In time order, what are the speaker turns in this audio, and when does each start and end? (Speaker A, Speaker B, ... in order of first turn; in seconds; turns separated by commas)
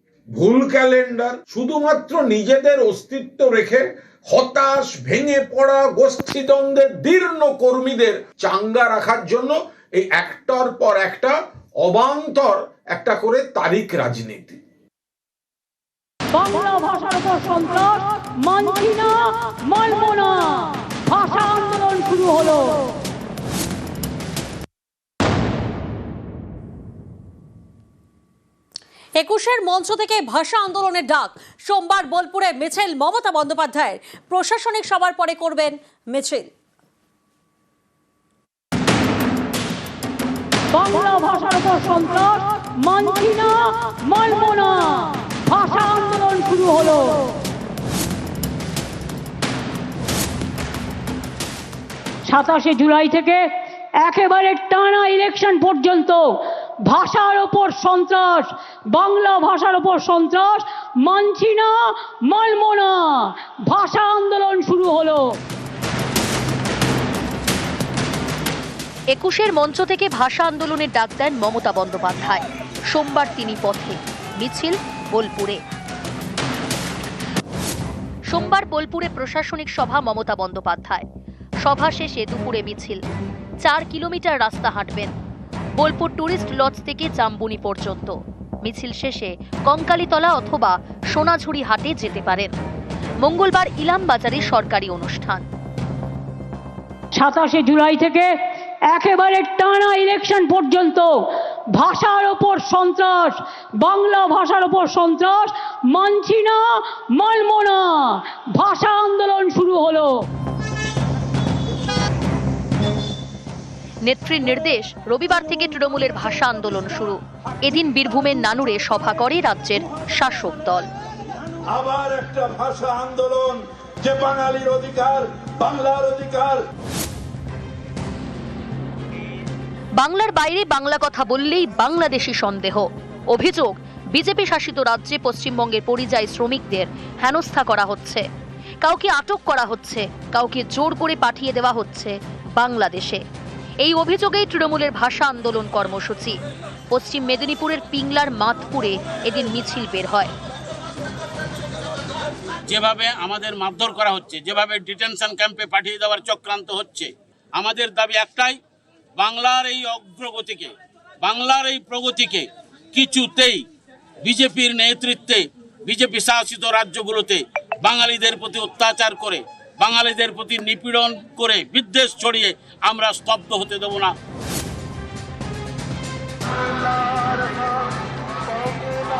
Speaker A: 0.3-14.6, Speaker B: 16.3-22.9, Speaker C: 29.2-36.5, Speaker B: 40.7-47.3, Speaker B: 52.2-53.5, Speaker B: 54.0-65.4, Speaker D: 69.1-75.6, Speaker D: 78.3-81.0, Speaker D: 81.6-83.0, Speaker D: 83.6-85.1, Speaker D: 85.8-92.5, Speaker D: 93.2-95.5, Speaker B: 97.2-98.3, Speaker B: 98.9-101.1, Speaker B: 101.8-110.2, Speaker D: 114.0-120.9, Speaker E: 121.7-126.6, Speaker D: 130.0-138.2, Speaker D: 138.8-143.2, Speaker D: 143.8-146.4, Speaker D: 146.9-150.3, Speaker F: 152.7-158.6, Speaker F: 159.2-163.6, Speaker F: 164.2-174.1